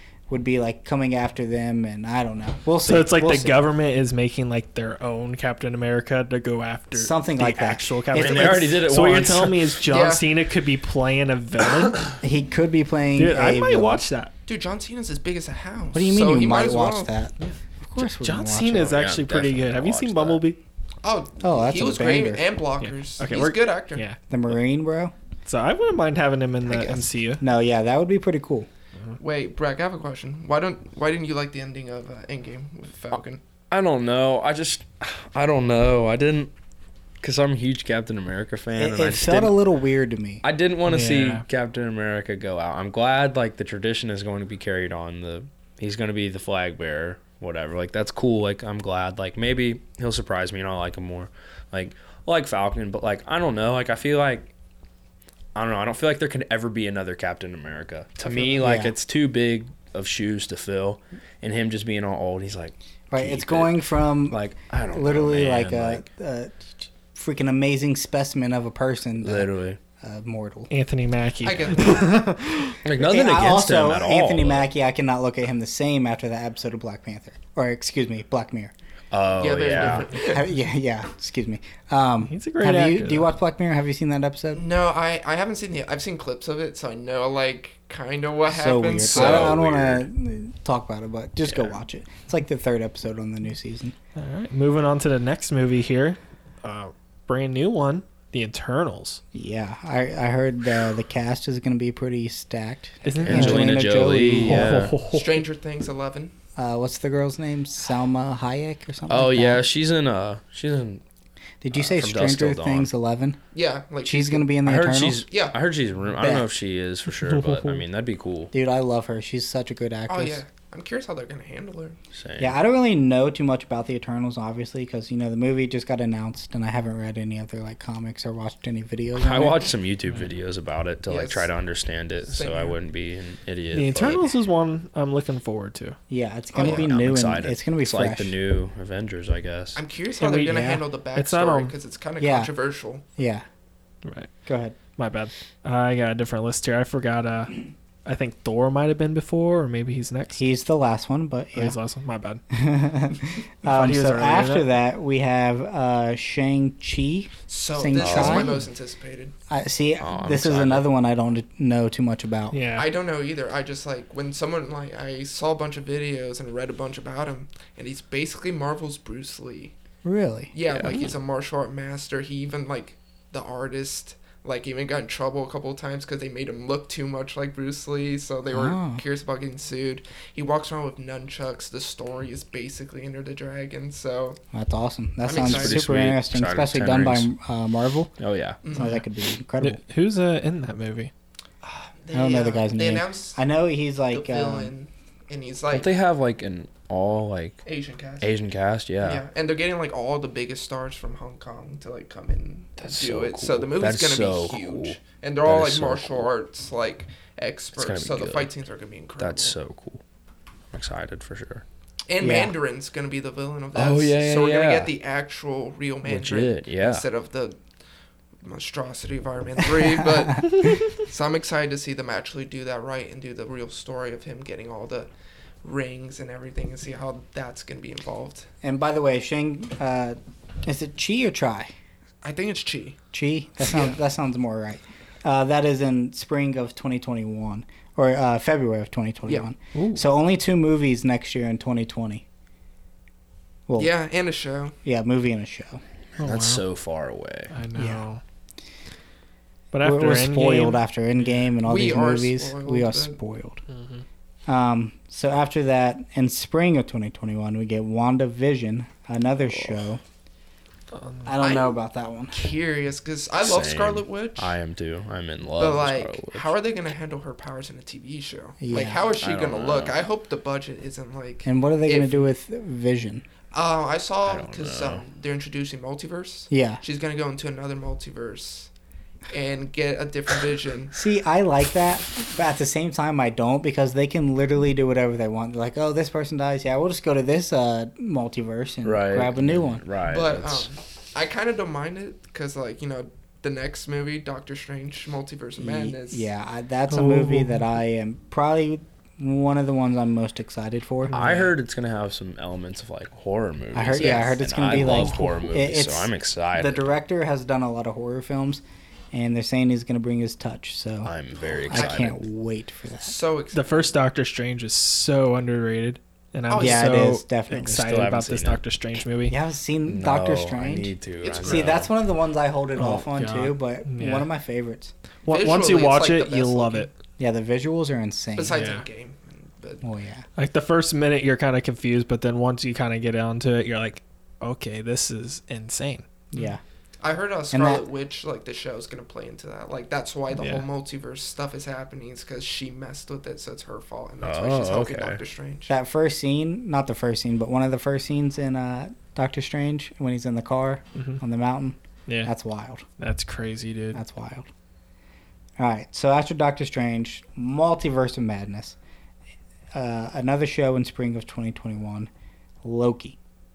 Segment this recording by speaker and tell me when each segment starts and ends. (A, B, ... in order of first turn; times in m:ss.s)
0:00.3-0:03.6 A
0:02.8-0:12.1 B
0:06.9-0:08.8 A
0:08.1-0:09.8 C
0:09.9-0:10.2 D
0:12.2-0:14.0 A
0:13.2-0:14.3 B
0:14.5-0:17.1 D
0:15.9-0:18.9 A
0:17.4-0:20.6 B
0:18.6-0:20.4 C
0:21.0-0:24.0 D
0:21.4-0:22.4 A
0:22.8-0:24.2 B
0:24.3-0:25.1 A
0:25.4-0:27.4 B
0:26.6-0:27.1 D
0:27.4-0:28.7 A
0:29.2-0:33.4 D
0:33.7-0:36.5 C
0:37.2-0:39.5 C
0:38.8-0:40.4 A
0:40.4-0:54.5 C
0:40.9-0:41.4 B
0:55.5-1:06.0 C
0:58.4-0:58.9 A
1:03.1-1:10.7 A
1:09.2-1:09.8 C
1:10.7-1:12.8 B
1:11.4-1:12.3 D
1:12.8-1:14.7 C
1:12.9-1:18.7 A
1:19.1-1:20.1 C
1:19.4-1:20.5 D
1:20.2-1:24.6 A
1:22.3-1:23.3 B
1:24.5-1:29.6 D
1:28.5-1:33.9 A
1:29.0-1:30.0 C
1:34.2-1:39.2 B
1:39.3-1:44.8 A
1:43.0-1:43.8 B
1:43.2-1:45.0 C
1:44.3-1:45.4 B
1:45.1-1:46.3 D
1:46.6-1:49.6 A
1:49.1-1:51.0 C
1:51.6-1:53.4 A
1:51.7-1:52.9 C
1:53.5-1:54.5 D
1:54.0-1:55.2 A
1:54.6-1:58.5 C
1:55.3-1:55.5 D
1:56.2-1:56.5 A
1:58.5-2:00.4 A
2:00.1-2:02.0 D
2:02.1-2:02.6 C
2:02.4-2:09.6 A
2:09.2-2:14.3 C
2:11.1-2:11.5 D
2:12.3-2:12.8 D
2:13.7-2:16.0 B
2:16.1-2:18.3 A
2:16.5-2:16.9 D
2:16.6-2:19.8 C
2:19.8-2:23.0 D
2:20.2-2:21.7 B
2:20.5-2:20.8 A
2:22.2-2:22.5 A
2:23.2-2:23.4 A
2:24.0-2:24.3 B
2:24.4-2:24.8 A
2:25.0-2:30.4 B
2:30.4-2:31.8 A
2:31.5-2:32.4 B
2:32.5-2:38.6 A
2:33.6-2:34.7 B
2:37.5-2:39.3 D
2:38.0-2:38.6 C
2:39.5-2:42.6 A
2:40.0-2:40.8 C
2:42.5-2:42.9 B
2:42.8-2:49.7 D
2:50.0-2:50.5 A
2:50.5-3:04.4 D
2:50.7-2:51.1 C
2:58.5-2:59.0 A
3:04.5-3:08.1 A
3:05.2-3:05.9 D
3:05.3-3:07.3 C
3:08.2-3:08.6 C
3:08.6-3:09.0 D
3:08.7-3:09.8 A
3:09.6-3:11.1 B
3:11.6-3:13.4 D
3:12.1-3:14.7 A
3:14.1-3:15.9 D
3:15.7-3:17.6 C
3:17.6-3:18.3 D
3:18.2-3:19.2 C
3:19.0-3:29.6 D
3:22.8-3:26.3 C
3:27.8-3:28.5 C
3:29.2-3:30.0 C
3:30.7-3:31.6 C
3:32.1-3:37.6 D
3:32.2-3:32.5 A
3:33.7-3:34.9 C
3:36.0-3:37.0 C
3:38.4-3:45.1 D
3:45.6-3:48.5 D
3:48.6-3:51.7 A
3:52.2-3:53.0 D
3:53.1-4:02.2 A
3:53.6-3:54.0 D
3:59.7-4:00.0 B
4:03.8-4:04.7 D
4:04.8-4:05.8 A
4:06.2-4:06.6 B
4:06.2-4:07.5 C
4:07.5-4:08.2 B
4:07.8-4:08.0 A
4:09.7-4:10.8 B
4:09.8-4:13.6 A
4:11.6-4:13.2 D
4:13.7-4:14.0 B
4:14.5-4:20.0 A
4:21.0-4:21.3 B
4:21.2-4:22.3 A
4:21.4-4:21.8 D
4:22.3-4:24.5 D
4:23.4-4:26.5 C
4:25.6-4:32.3 D
4:28.6-4:29.1 A
4:29.2-4:30.0 C
4:31.4-4:33.2 A
4:33.5-4:38.7 D
4:34.2-4:35.0 C
4:36.5-4:36.8 A
4:39.3-4:41.0 D
4:40.9-4:49.8 A
4:48.8-4:50.7 C
4:50.0-4:56.3 D
4:55.6-5:01.5 A
4:56.9-4:57.6 B
5:01.1-5:06.8 C
5:03.7-5:11.1 A
5:03.9-5:05.0 D
5:11.0-5:12.2 C
5:11.7-5:13.1 A
5:11.7-5:12.0 D
5:13.0-5:13.9 D
5:13.5-5:19.4 B
5:16.5-5:16.9 D
5:16.6-5:17.8 A
5:17.7-5:18.6 C
5:19.3-5:24.9 A
5:19.8-5:21.9 C
5:21.2-5:21.9 D
5:22.8-5:24.3 B
5:25.2-5:26.9 B
5:25.3-5:26.9 D
5:27.2-5:28.6 A
5:28.4-5:29.8 D
5:28.5-5:28.8 B
5:29.8-5:30.2 A
5:30.4-5:36.4 B
5:36.3-5:36.6 A
5:37.0-5:45.7 D
5:37.5-5:37.8 A
5:40.3-5:40.6 B
5:44.2-5:45.2 C
5:45.7-5:52.8 A
5:51.0-5:51.2 B
5:52.1-5:52.3 B
5:53.0-5:54.0 B
5:53.9-5:54.5 A
5:55.6-5:58.8 A
5:59.7-6:02.1 A
6:02.6-6:03.2 A